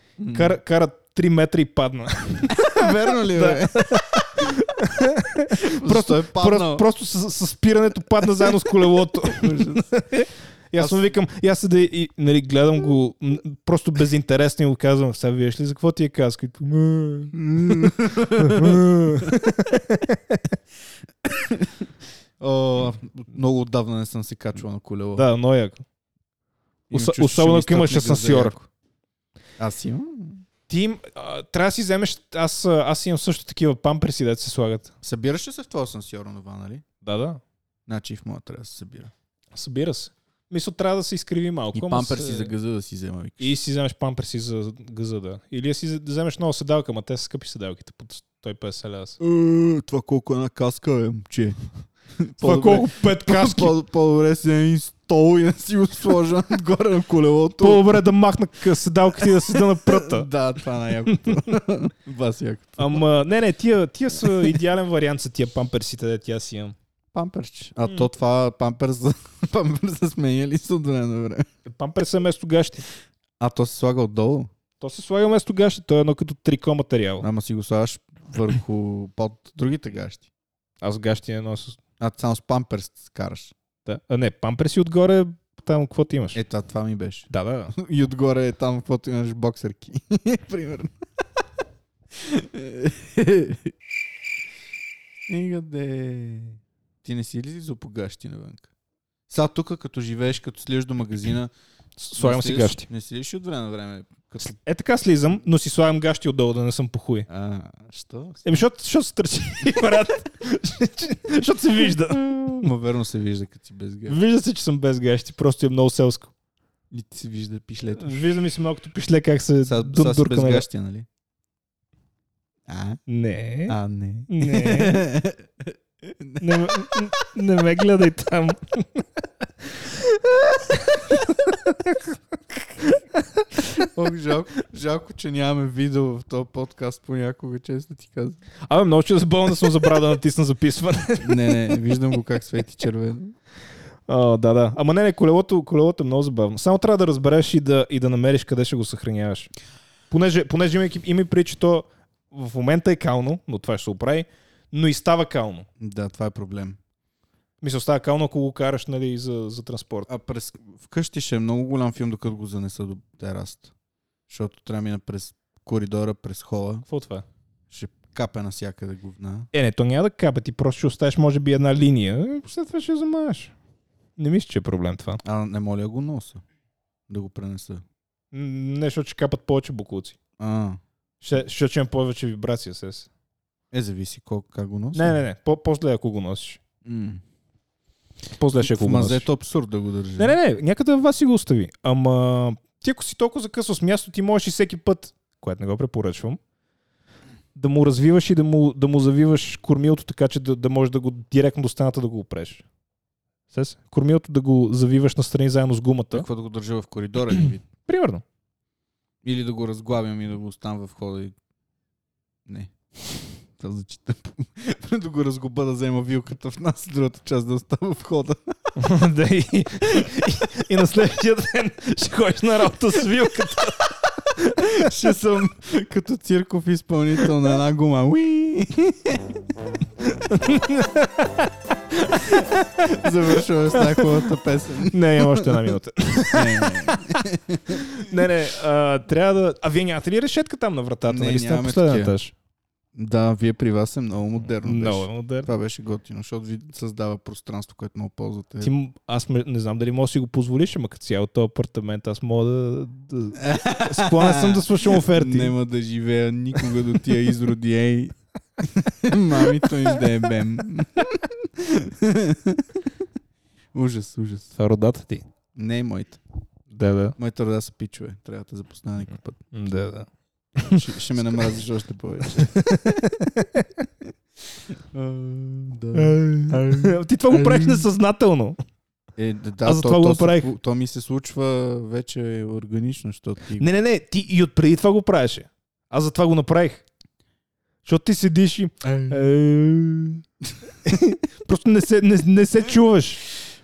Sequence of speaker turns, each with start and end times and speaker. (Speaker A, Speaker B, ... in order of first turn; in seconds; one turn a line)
Speaker A: 0.2-0.6
Speaker B: 0.3-20.4
Speaker A: 2.5-4.5
Speaker A: 5.5-6.8
Speaker A: 9.2-9.9
Speaker A: 10.8-11.1
Speaker A: 17.3-19.6
Speaker A: 21.2-25.3
Speaker B: 25.2-25.8
Speaker A: 26.9-28.7
Speaker B: 26.9-28.6
Speaker A: 29.6-30.4
Speaker B: 30.7-34.9
Speaker A: 35.0-36.8
Speaker B: 37.0-37.4
Speaker A: 37.9-39.1
Speaker B: 39.5-42.5
Speaker A: 41.7-43.5
Speaker B: 43.4-49.2
Speaker A: 49.2-51.6
Speaker A: 52.2-58.0
Speaker B: 52.4-53.7
Speaker B: 57.6-60.3
Speaker A: 59.2-63.0
Speaker B: 61.1-61.4
Speaker B: 62.8-66.8
Speaker A: 64.2-64.6
Speaker A: 67.1-71.5
Speaker B: 71.7-72.8
Speaker A: 73.4-74.5
Speaker B: 74.8-77.2
Speaker A: 77.2-80.3
Speaker B: 80.8-81.8
Speaker A: 82.0-83.5
Speaker B: 83.9-86.4
Speaker A: 86.3-90.9
Speaker B: 87.3-87.7
Speaker A: 92.1-93.7
Speaker A: 95.3-98.7
Speaker A: 99.3-101.5
Speaker B: 102.0-102.9
Speaker A: 102.2-104.6
Speaker B: 104.6-107.3
Speaker A: 107.3-108.6
Speaker B: 108.4-112.7
Speaker A: 112.6-114.2
Speaker B: 114.1-116.3
Speaker A: 116.9-118.3
Speaker B: 118.0-120.7
Speaker A: 119.7-121.1
Speaker A: 122.7-123.0
Speaker B: 123.1-125.0
Speaker A: 123.7-127.0
Speaker B: 126.4-129.1
Speaker B: 129.6-133.9
Speaker A: 133.8-138.4
Speaker B: 138.7-141.8
Speaker A: 141.2-143.3
Speaker B: 144.1-149.5
Speaker B: 150.1-155.7
Speaker A: 155.8-156.8
Speaker B: 157.6-160.1
Speaker A: 160.1-163.7
Speaker A: 164.3-166.8
Speaker B: 166.9-167.2
Speaker A: 167.7-169.5
Speaker B: 169.5-173.5
Speaker B: 174.2-175.2
Speaker A: 175.2-176.4
Speaker A: 177.1-177.8
Speaker B: 178.3-180.2
Speaker A: 180.4-180.8
Speaker B: 181.2-183.1
Speaker A: 183.7-185.2
Speaker B: 184.9-186.6
Speaker A: 186.8-187.2
Speaker B: 188.4-189.3
Speaker A: 188.6-190.4
Speaker B: 190.2-196.4
Speaker B: 197.6-202.6
Speaker B: 203.5-206.3
Speaker A: 206.1-207.6
Speaker B: 207.3-208.2
Speaker A: 209.2-211.3
Speaker A: 212.5-218.8
Speaker B: 218.8-224.9
Speaker A: 224.6-229.4
Speaker B: 230.0-233.0
Speaker A: 232.1-235.7
Speaker B: 233.8-234.1
Speaker B: 234.9-242.3
Speaker A: 236.3-238.3
Speaker A: 241.1-242.1
Speaker A: 242.9-248.7
Speaker B: 244.6-245.5
Speaker B: 248.6-255.5
Speaker A: 253.4-262.9
Speaker A: 263.7-264.5
Speaker B: 264.6-265.2
Speaker A: 265.6-266.2
Speaker B: 266.7-267.2
Speaker A: 267.2-269.4
Speaker B: 269.5-271.5
Speaker A: 270.7-273.0
Speaker B: 272.2-273.8
Speaker A: 274.9-277.9
Speaker B: 275.9-278.6
Speaker A: 279.2-283.7
Speaker B: 279.6-280.5
Speaker B: 283.6-286.8
Speaker B: 287.9-290.2
Speaker A: 288.8-289.3
Speaker B: 290.8-293.3